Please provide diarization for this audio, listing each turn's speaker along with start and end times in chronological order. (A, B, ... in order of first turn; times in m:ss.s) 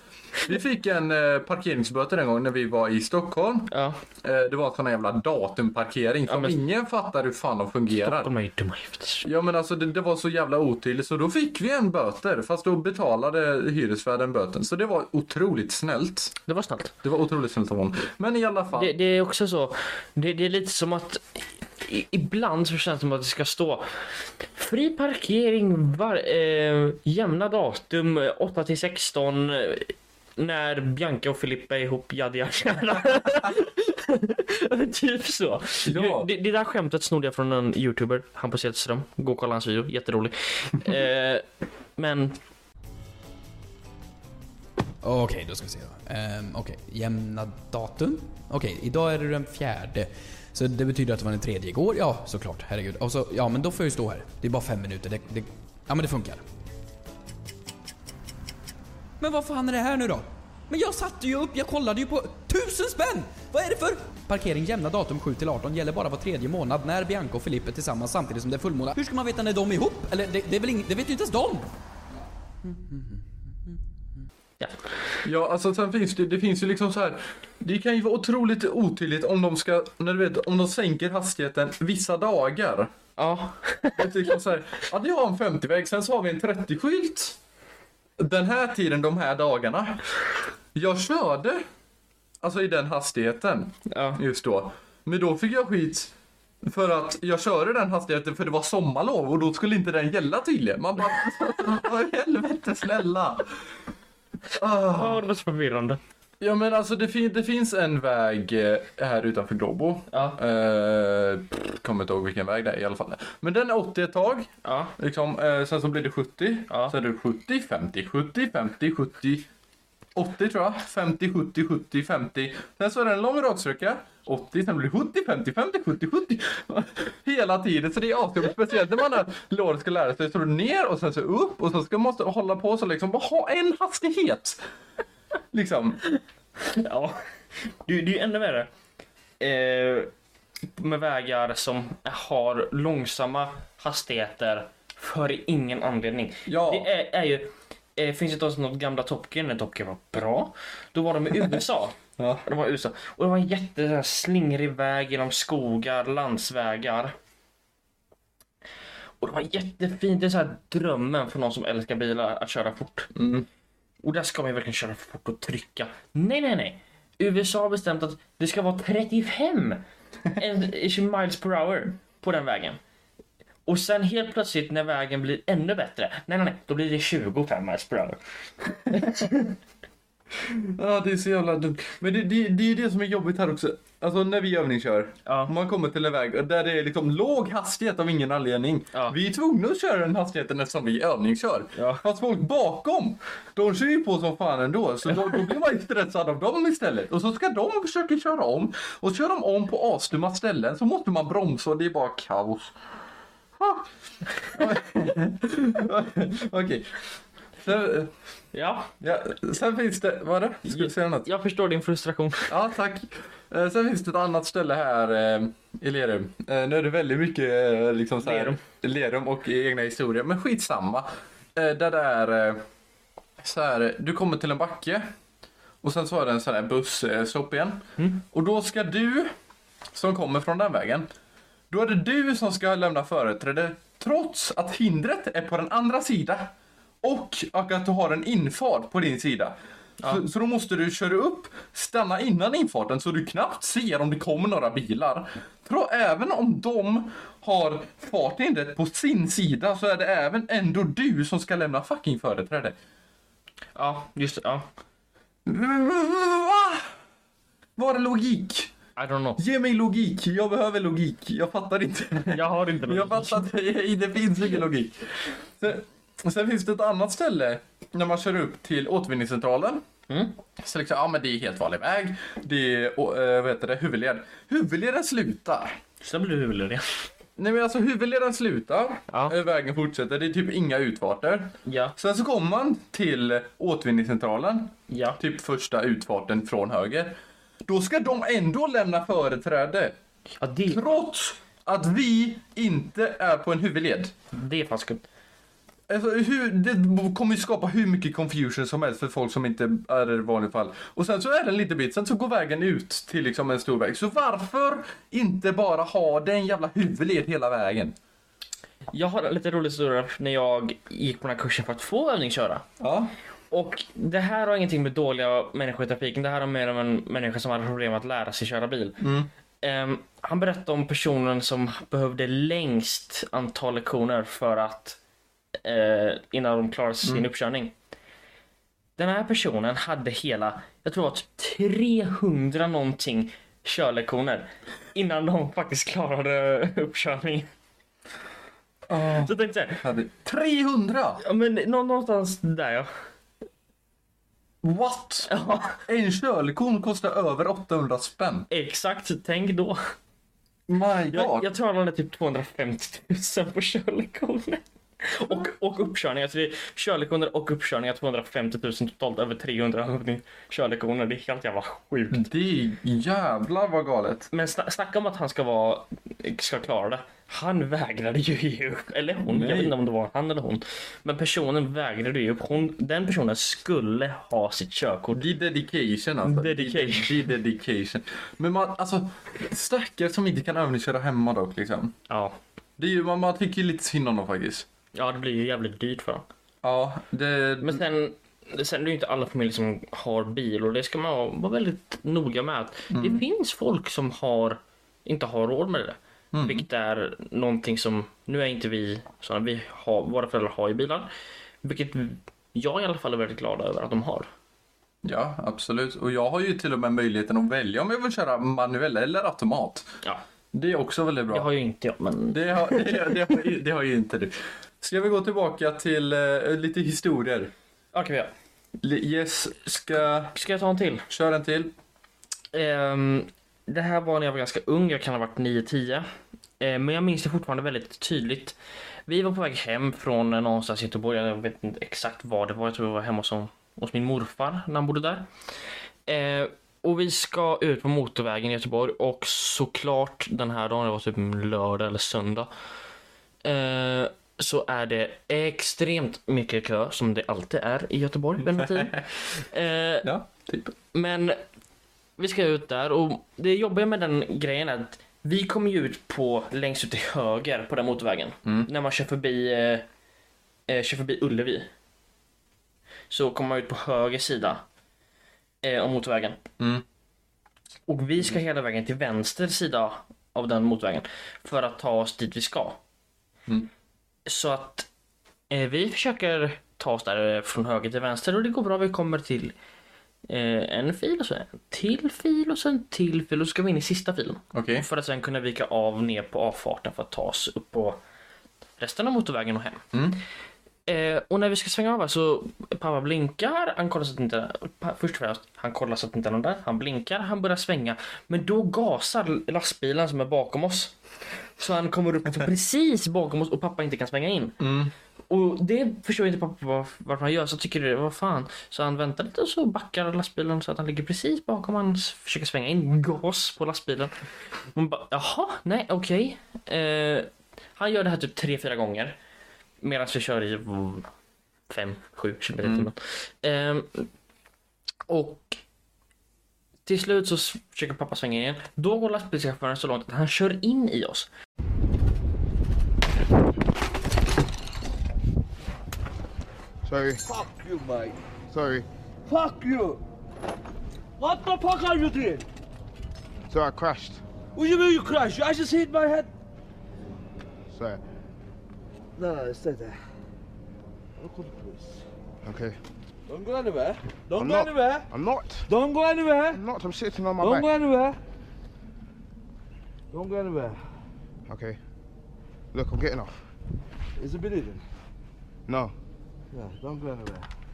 0:00.4-0:08.3 A
0:03.7-0:04.0 B
0:06.3-0:06.6 B
0:08.0-0:09.3 B
0:09.2-0:16.4 A
0:16.5-0:16.9 B
0:17.0-0:18.9 A
0:18.8-0:21.2 B
0:21.8-0:23.9 B
0:24.6-0:41.4 B
0:35.8-0:36.3 A
0:42.0-0:42.4 B
0:45.0-0:56.4 C
0:59.2-1:11.7 C
1:12.6-1:13.2 C
1:15.2-1:22.9 A
1:23.2-1:24.1 B
1:24.0-1:27.4 A
1:28.2-1:30.1 A
1:30.7-1:31.6 A
1:32.4-1:36.1 A
1:33.9-1:34.2 B
1:36.6-1:43.6 A
1:44.6-1:45.2 A
1:44.9-1:46.0 B
1:46.4-1:59.5 A
1:50.1-1:50.4 B
1:54.6-1:54.9 B
2:00.2-2:14.6 A
2:15.5-2:16.0 A
2:16.6-2:18.7 B
2:19.4-2:20.1 B
2:20.8-2:37.1 B
2:26.5-2:26.9 A
2:32.2-2:32.4 A
2:39.2-2:43.1 B
2:43.2-2:43.5 A
2:44.0-2:49.8 B
2:50.3-2:52.8 B
2:53.7-2:58.2 B
2:58.9-2:59.5 B
3:00.4-3:22.7 A
3:05.3-3:05.5 B
3:11.8-3:12.0 B
3:15.1-3:15.4 B
3:23.6-3:23.9 A
3:24.5-3:27.0 A
3:27.6-3:28.1 A
3:28.5-3:28.9 B
3:29.0-3:31.3 A
3:30.7-3:32.5 B
3:32.5-3:42.6 A
3:38.2-3:38.6 B
3:43.4-3:45.1 A
3:45.8-3:49.4 A
3:49.9-3:51.1 A
3:51.7-3:56.5 A
3:57.0-4:12.8 A
4:13.8-4:14.7 B
4:15.5-4:16.9 A
4:17.8-4:18.7 A
4:19.0-4:19.4 B
4:19.4-4:29.8 A
4:22.3-4:23.5 B
4:30.1-4:30.3 B
4:30.6-4:35.8 A
4:36.0-4:37.1 B
4:37.4-4:49.9 A
4:41.6-4:42.0 B
4:44.9-4:45.2 B
4:50.4-4:50.8 B
4:50.7-4:54.1 A
4:54.3-4:55.0 B
4:55.9-5:08.0 A
5:08.9-5:12.6 B
5:12.8-5:13.1 A
5:13.5-5:19.0 B
5:19.0-5:19.3 A
5:19.6-5:25.0 B
5:25.6-5:27.7 B
5:29.0-5:37.5 B
5:38.9-5:41.2 A
5:39.1-5:39.8 B
5:41.2-5:42.9 B
5:44.6-5:45.3 A
5:45.3-5:45.8 B
5:45.8-5:48.5 A
5:48.5-5:49.9 B
5:50.7-5:51.5 A
5:51.1-6:02.3 B
6:02.1-6:04.3 A
6:04.3-6:15.2 B
6:09.2-6:09.7 A
6:15.1-6:21.9 A
6:16.2-6:17.3 B
6:22.1-6:22.4 B
6:22.8-6:24.7 A
6:25.0-6:26.2 B
6:26.6-6:27.8 A
6:27.6-6:41.1 B
6:32.9-6:33.2 A
6:36.3-6:36.7 A
6:41.6-6:44.3 B
6:45.0-6:50.0 A
6:50.5-6:51.5 A
6:51.3-6:53.4 B
6:52.3-6:57.5 A
6:57.9-6:58.3 B
6:58.8-7:00.4 A
7:00.3-7:01.1 B
7:01.1-7:01.7 A
7:02.5-7:06.1 B
7:06.6-7:08.6 B
7:09.1-7:15.3 B
7:16.1-7:22.5 B
7:23.4-7:30.1 B
7:28.4-7:29.0 A
7:30.0-7:30.8 A
7:30.9-7:31.4 B
7:32.2-7:39.8 B
7:40.7-7:41.7 B
7:43.1-7:44.6 B
7:45.6-7:46.4 B
7:47.9-7:52.8 B
7:54.3-7:54.9 B
7:55.5-7:59.5 B
8:00.3-8:08.0 B
8:04.5-8:04.8 A
8:08.8-8:09.8 B
8:09.9-8:10.2 A
8:10.9-8:21.0 B
8:21.6-8:24.6 B
8:24.6-8:24.9 A
8:25.3-8:34.2 B
8:34.7-8:39.2 B
8:39.8-8:41.1 B
8:41.7-8:44.1 B
8:42.6-8:42.9 A
8:45.1-8:45.6 B
8:46.9-8:51.3 B
8:56.8-8:57.2 D
8:57.3-8:58.2 E
8:58.5-8:58.9 D
8:59.3-9:00.0 E
9:01.2-9:02.5 E
9:03.5-9:04.2 D
9:04.6-9:06.3 E
9:07.7-9:08.0 D
9:09.2-9:10.0 E
9:11.2-9:12.0 E
9:12.4-9:12.8 D
9:13.3-9:15.1 E
9:14.4-9:15.7 D
9:15.7-9:16.6 E
9:16.5-9:17.7 D
9:17.4-9:18.2 E
9:20.1-9:20.8 E
9:21.5-9:21.8 D
9:22.7-9:23.4 D
9:24.2-9:24.8 E
9:25.7-9:25.9 D
9:26.5-9:27.5 E